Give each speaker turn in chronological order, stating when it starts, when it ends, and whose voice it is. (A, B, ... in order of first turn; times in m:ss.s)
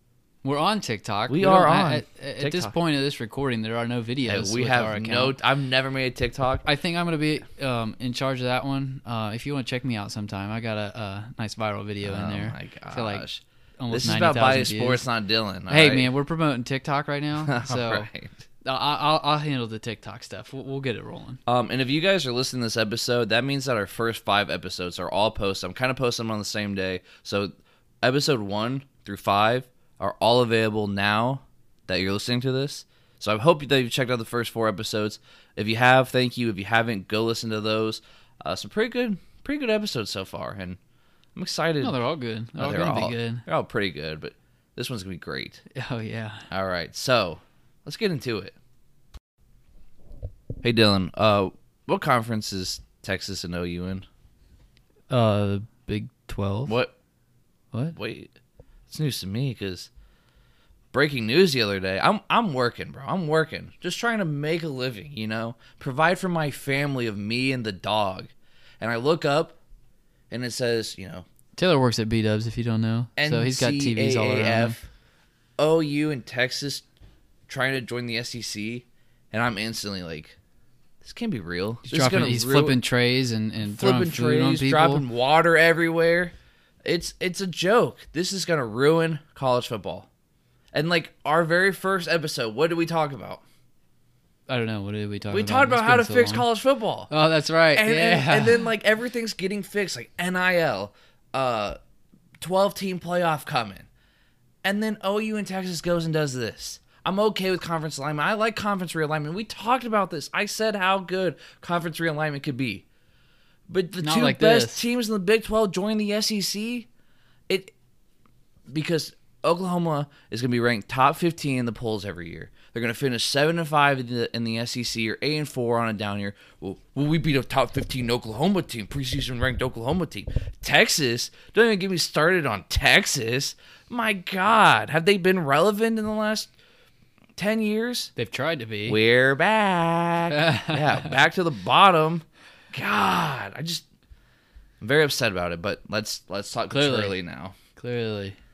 0:00.4-0:05.4 A
0:01.3-0:02.7 B
0:04.2-0:06.7 B
0:06.6-0:13.2 A
0:12.0-0:16.1 B
0:13.8-0:15.0 A
0:15.7-0:18.1 A
0:17.4-0:18.4 B
0:18.6-0:21.4 A
0:21.5-0:40.8 B
0:41.4-0:42.0 B
0:41.8-0:43.4 A
0:42.6-0:45.6 B
0:45.7-0:46.5 A
0:46.5-0:48.6 B
0:50.6-0:54.1 B
0:55.1-0:56.8 A
0:56.7-0:56.9 B
0:57.9-0:58.4 B
0:58.9-0:59.9 B
1:00.9-1:09.6 B
1:10.3-1:11.3 B
1:11.6-1:14.8 A
1:13.2-1:14.9 B
1:15.6-1:16.8 B
1:17.5-1:20.4 B
1:21.0-1:22.8 B
1:21.9-1:25.0 A
1:23.6-1:30.1 B
1:30.7-1:33.4 B
1:34.5-1:36.5 A
1:35.3-1:37.1 B
1:37.1-1:38.6 A
1:37.7-1:41.8 B
1:42.4-1:43.9 B
1:44.6-1:52.9 B
1:53.7-1:56.9 B
1:54.0-1:54.8 A
1:57.5-1:57.7 B
1:58.7-2:16.5 B
2:17.4-2:18.1 B
2:18.2-2:19.0 A
2:18.9-2:23.9 B
2:20.3-2:21.0 A
2:24.8-2:27.6 B
2:26.7-2:27.2 A
2:27.8-2:28.4 A